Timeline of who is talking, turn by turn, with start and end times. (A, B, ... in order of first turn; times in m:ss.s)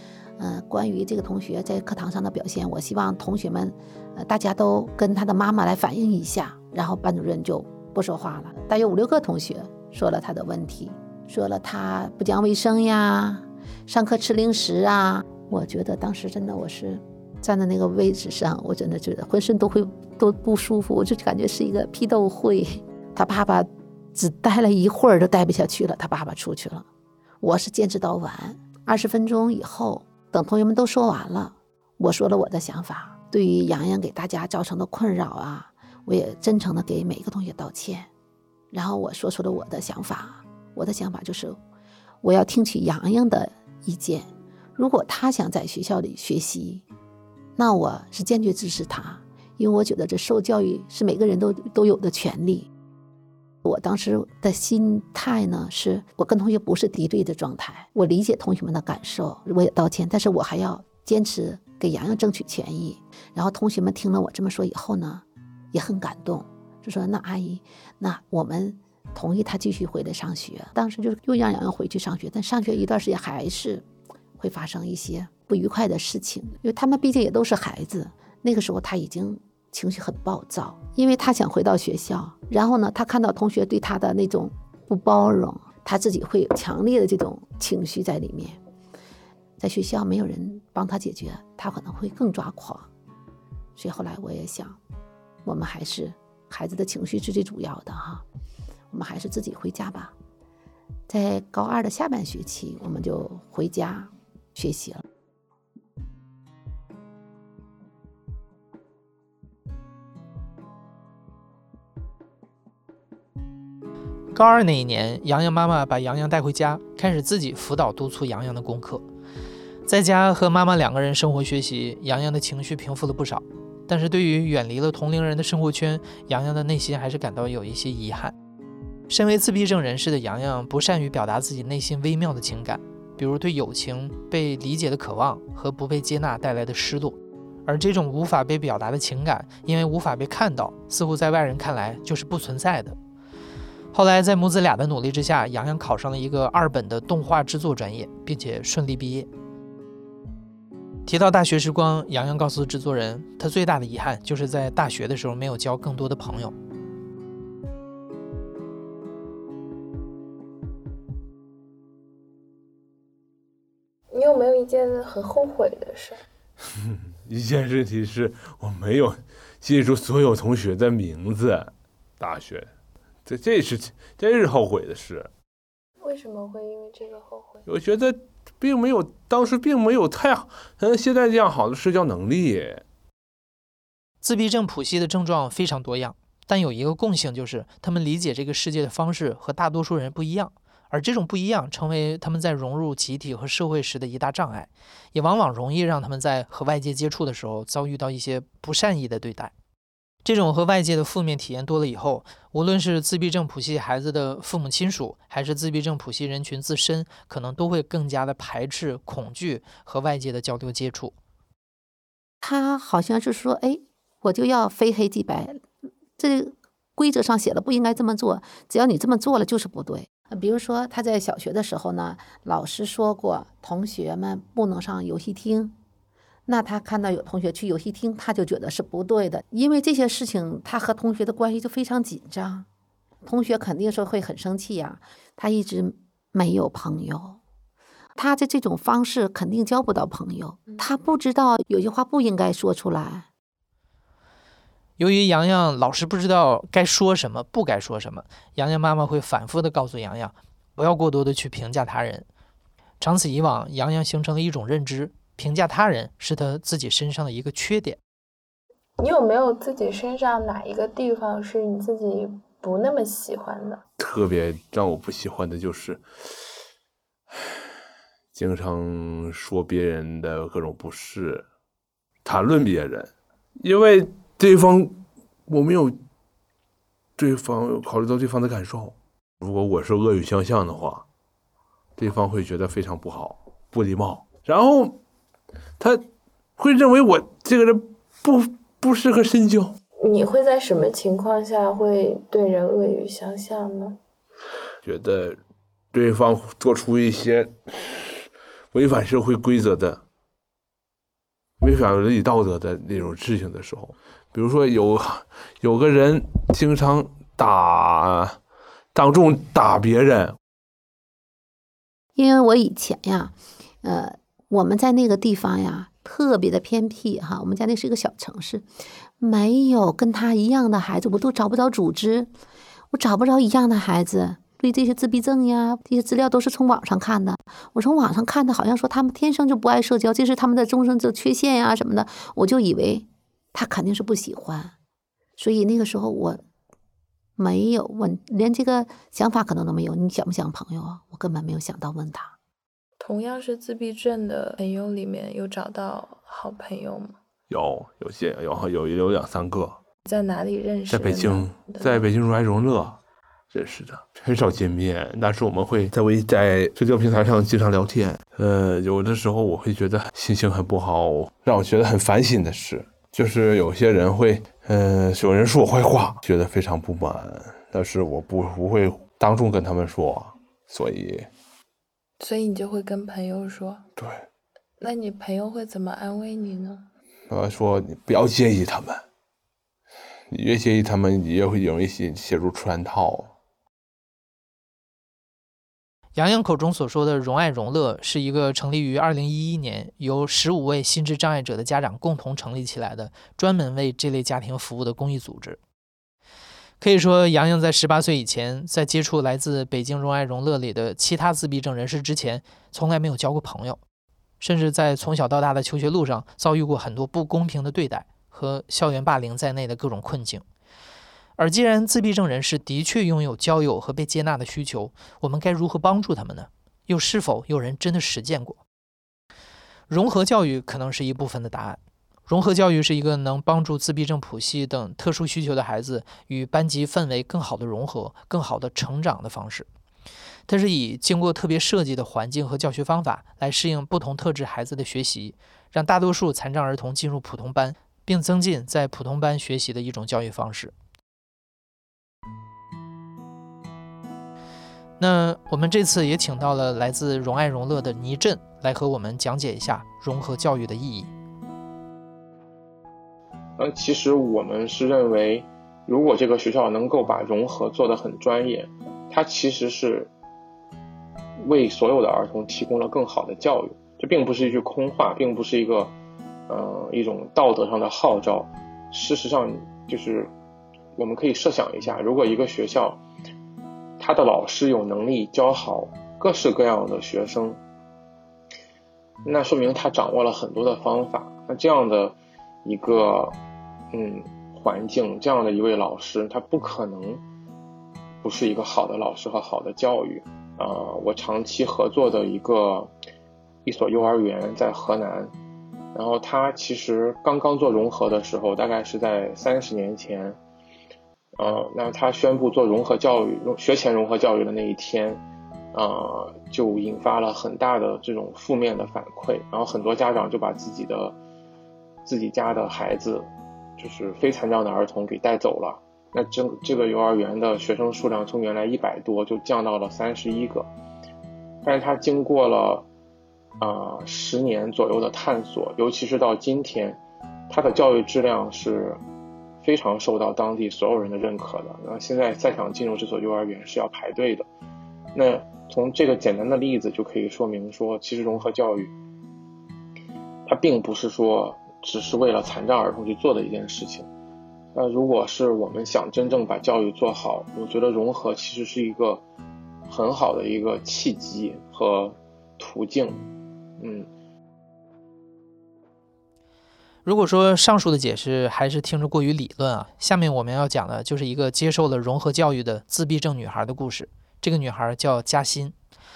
0:00.4-0:26.9 A
0:27.4-0:38.1 A
0:38.7-0:41.6 A
0:42.2-0:46.8 A
0:47.6-0:52.7 A
0:53.6-1:13.8 A
1:14.4-1:28.6 A
1:29.6-1:32.9 A
1:33.8-1:34.8 A
1:35.4-1:38.2 A
1:38.9-1:40.2 A
1:41.1-1:45.0 A
1:54.3-1:59.0 B
1:59.8-2:08.3 B
2:09.1-2:23.0 B
2:23.9-2:29.3 B
2:31.0-2:36.5 B
2:44.1-2:46.2 C
2:46.7-2:52.7 D
2:53.2-2:55.3 D
2:56.0-2:57.6 C
2:57.6-3:02.8 D
3:04.2-3:19.5 B
3:20.2-3:31.1 B
3:32.4-3:35.6 A
3:36.2-3:45.8 A
3:46.4-3:52.7 A
3:53.2-3:57.4 A
3:58.2-4:03.3 A
4:05.0-4:12.2 B
4:13.0-4:18.0 B
4:19.0-4:23.8 C
4:24.0-4:26.0 D
4:28.3-4:31.4 D
4:32.2-4:36.0 D
4:37.2-4:41.0 D
4:42.0-4:45.0 D
4:45.8-4:46.0 D
4:46.6-4:49.8 D
4:50.0-4:54.0 C
4:54.8-4:55.4 D
4:55.9-5:00.0 D
5:01.6-5:08.4 D
5:08.9-5:10.4 D
5:12.2-5:18.6 A
5:19.2-5:22.3 A
5:22.9-5:34.7 A
5:35.4-5:36.4 A
5:37.4-5:42.3 A
5:43.0-5:47.2 C
5:47.5-5:49.8 D
5:50.0-5:52.1 C
5:50.9-5:53.0 D
5:53.5-6:11.3 D
6:12.2-6:13.8 C
6:14.0-6:14.2 D
6:14.8-6:16.8 C
6:17.3-6:19.0 D
6:20.3-6:23.3 D
6:26.2-6:35.6 B
6:36.8-6:43.8 B
6:44.4-6:50.4 B
6:51.4-6:58.6 B
6:59.9-7:09.7 B
7:10.5-7:20.7 B
7:25.0-7:31.1 B
7:33.6-7:40.1 E
7:41.4-7:45.9 E
7:46.5-7:50.3 E
7:51.0-7:53.0 E
7:54.0-7:57.6 E
7:59.2-8:03.4 E
8:03.9-8:07.2 E
8:08.2-8:12.9 E
8:13.6-8:15.3 E
8:15.9-8:20.4 E
8:21.4-8:25.2 E
8:25.7-8:31.2 E
8:32.0-8:40.7 E
8:41.6-8:42.9 E
8:43.6-8:49.0 E
8:49.6-8:54.5 E
8:55.1-8:58.9 E
9:00.5-9:04.1 E
9:04.7-9:09.2 E
9:09.9-9:13.2 E
9:13.8-9:14.1 E
9:17.0-9:25.7 B